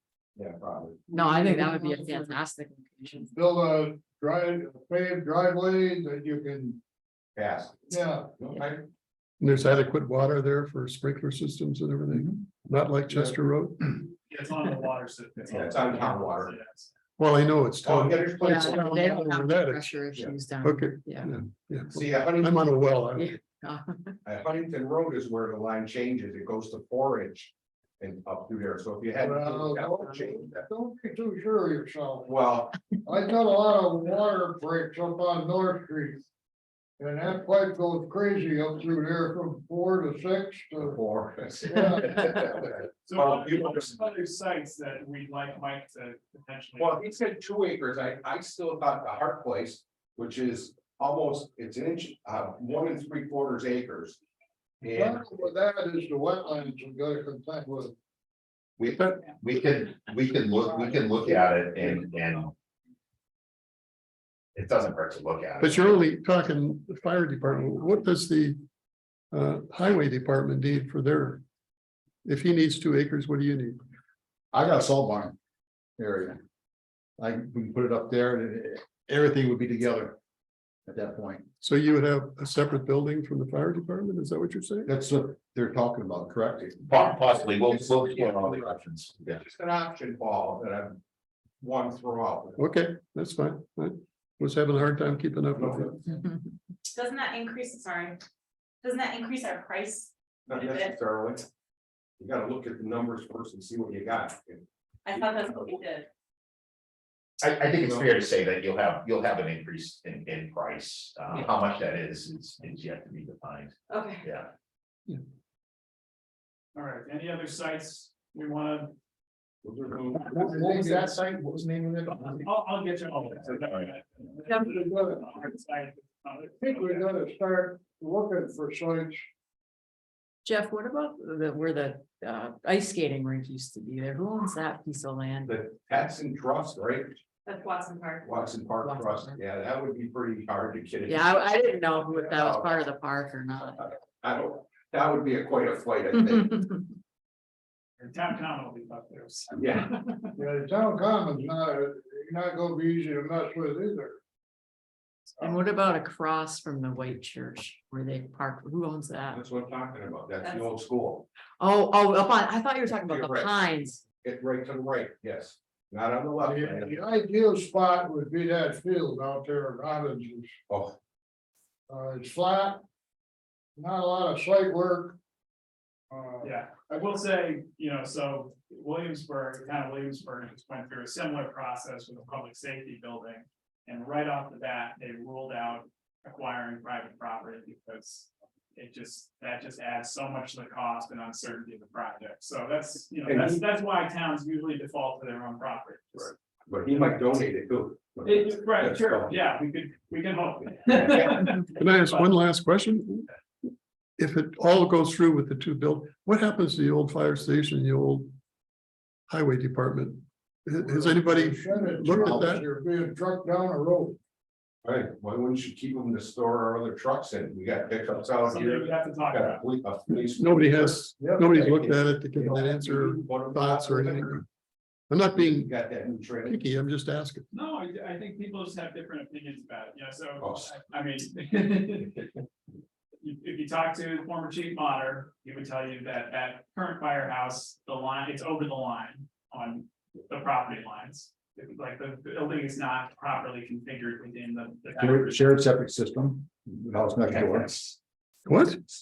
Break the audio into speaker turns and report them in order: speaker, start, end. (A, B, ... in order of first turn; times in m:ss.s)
0:00.4-0:01.0 A
0:01.1-0:02.4 B
0:01.1-0:03.3 C
0:03.1-0:06.8 B
0:07.4-0:08.8 A
0:07.9-0:08.3 B
0:09.4-0:13.9 D
0:14.0-0:16.9 E
0:15.5-0:16.5 A
0:17.2-0:20.0 D
0:17.8-0:19.0 A
0:18.4-0:21.4 C
0:20.6-0:23.4 D
0:21.9-0:22.7 A
0:23.1-0:24.2 C
0:24.2-0:30.7 A
0:29.2-0:32.4 B
0:32.2-0:32.8 A
0:33.0-0:36.2 B
0:37.0-0:41.0 B
0:40.8-0:43.9 A
0:41.6-0:42.4 B
0:43.0-0:47.0 E
0:46.8-0:54.2 A
0:54.8-0:55.2 A
0:54.8-0:57.9 B
0:58.8-1:02.5 F
0:58.9-0:59.3 D
1:00.6-1:01.4 B
1:04.5-1:06.0 F
1:05.6-1:08.6 D
1:09.3-1:11.4 D
1:12.2-1:13.8 D
1:14.5-1:15.4 G
1:16.0-1:16.4 G
1:17.2-1:20.2 G
1:20.9-1:21.4 G
1:21.6-1:24.9 D
1:24.8-1:27.2 G
1:26.9-1:29.3 F
1:26.9-1:28.6 A
1:28.0-1:28.6 G
1:29.2-1:31.0 A
1:31.6-1:32.6 A
1:32.6-1:36.0 D
1:35.6-1:36.2 A
1:36.9-1:38.2 H
1:38.8-1:40.9 H
1:40.5-1:41.4 A
1:42.2-1:44.6 A
1:45.0-1:46.1 H
1:47.4-1:54.5 F
1:53.9-1:54.2 H
1:56.7-1:58.9 E
1:59.6-2:00.4 A
2:00.2-2:02.4 G
2:00.4-2:01.2 B
2:02.2-2:07.1 E
2:04.6-2:05.3 B
2:06.6-2:09.3 B
2:10.4-2:15.6 C
2:15.4-2:17.2 A
2:17.4-2:18.5 H
2:18.2-2:21.4 A
2:18.8-2:19.4 C
2:21.0-2:23.8 C
2:22.1-2:22.8 A
2:23.8-2:26.8 A
2:28.0-2:30.3 E
2:29.6-2:29.8 A
2:30.4-2:34.2 B
2:35.4-2:39.4 C
2:39.3-2:41.2 A
2:40.4-2:40.7 H
2:41.6-2:44.0 C
2:43.0-2:43.5 A
2:44.2-2:47.0 A
2:46.4-2:50.5 B
2:50.7-2:51.0 A
2:51.9-2:52.8 B
2:53.8-2:55.2 B
2:56.1-2:56.5 B
2:56.4-3:16.3 E
3:13.2-3:13.6 A
3:16.2-3:19.4 A
3:18.2-3:22.3 E
3:20.9-3:21.5 A
3:21.8-3:28.3 D
3:29.3-3:32.6 D
3:30.8-3:34.2 B
3:34.8-3:44.4 A
3:38.4-3:39.6 E
3:40.3-3:44.4 D
3:41.2-3:41.6 B
3:45.1-3:45.8 D
3:45.3-3:46.6 A
3:46.4-3:47.4 D
3:47.5-3:52.3 E
3:50.4-3:50.7 A
3:53.2-4:05.4 E
4:04.9-4:07.7 G
4:08.4-4:08.8 D